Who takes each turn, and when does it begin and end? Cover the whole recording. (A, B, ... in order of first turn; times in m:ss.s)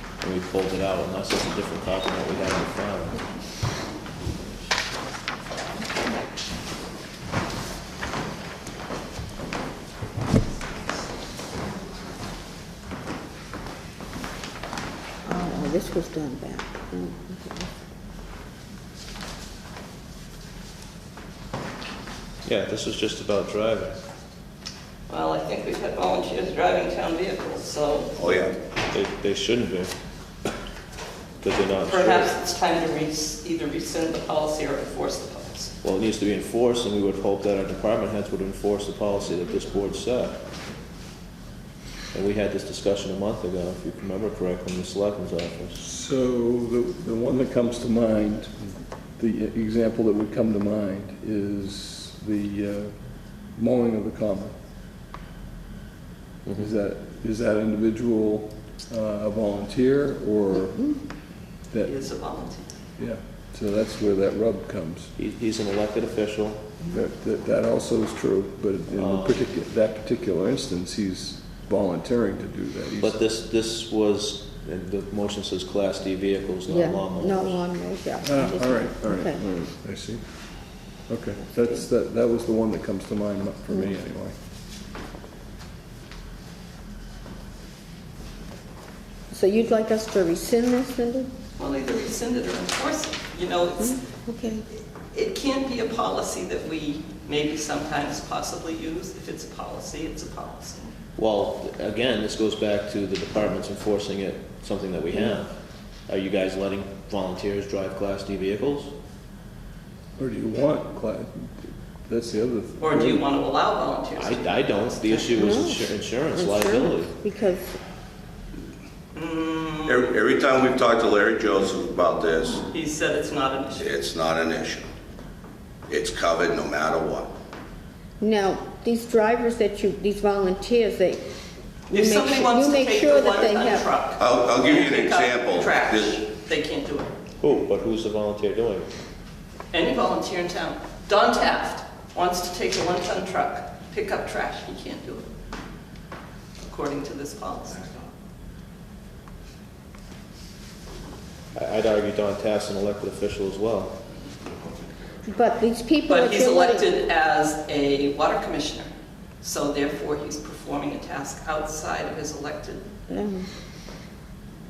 0:00.2-0:03.2 A
0:15.2-0:17.7 B
0:22.4-0:24.0 A
0:25.1-0:28.2 C
0:28.2-0:28.6 D
0:28.9-0:29.9 A
0:31.4-0:32.3 A
0:31.9-0:35.7 C
0:35.8-0:40.4 A
0:42.1-0:45.8 A
0:45.8-0:48.5 E
0:49.2-0:53.0 E
0:53.6-0:54.6 E
0:56.5-1:01.0 E
1:01.7-1:02.0 E
1:01.8-1:02.7 C
1:03.0-1:05.1 E
1:05.2-1:06.7 A
1:06.9-1:13.2 E
1:09.0-1:09.5 A
1:13.0-1:17.6 A
1:16.7-1:19.4 B
1:18.2-1:20.2 E
1:21.1-1:24.4 E
1:29.3-1:31.3 B
1:31.6-1:34.0 C
1:33.8-1:34.6 B
1:34.7-1:40.9 C
1:41.2-1:45.5 A
1:45.1-1:45.4 B
1:46.1-1:48.9 A
1:50.2-1:53.3 E
1:52.8-1:54.5 C
1:54.2-1:57.1 A
1:55.2-1:57.8 B
1:59.2-2:00.1 C
1:59.9-2:02.7 D
2:02.7-2:04.0 C
2:03.8-2:04.9 D
2:05.9-2:07.3 D
2:08.2-2:11.2 B
2:11.9-2:13.9 B
2:11.9-2:17.1 C
2:14.2-2:16.2 D
2:17.4-2:18.9 A
2:19.7-2:25.3 C
2:26.6-2:27.9 C
2:31.6-2:34.0 A
2:35.3-2:37.0 B
2:36.1-2:42.9 C
2:43.1-2:43.5 B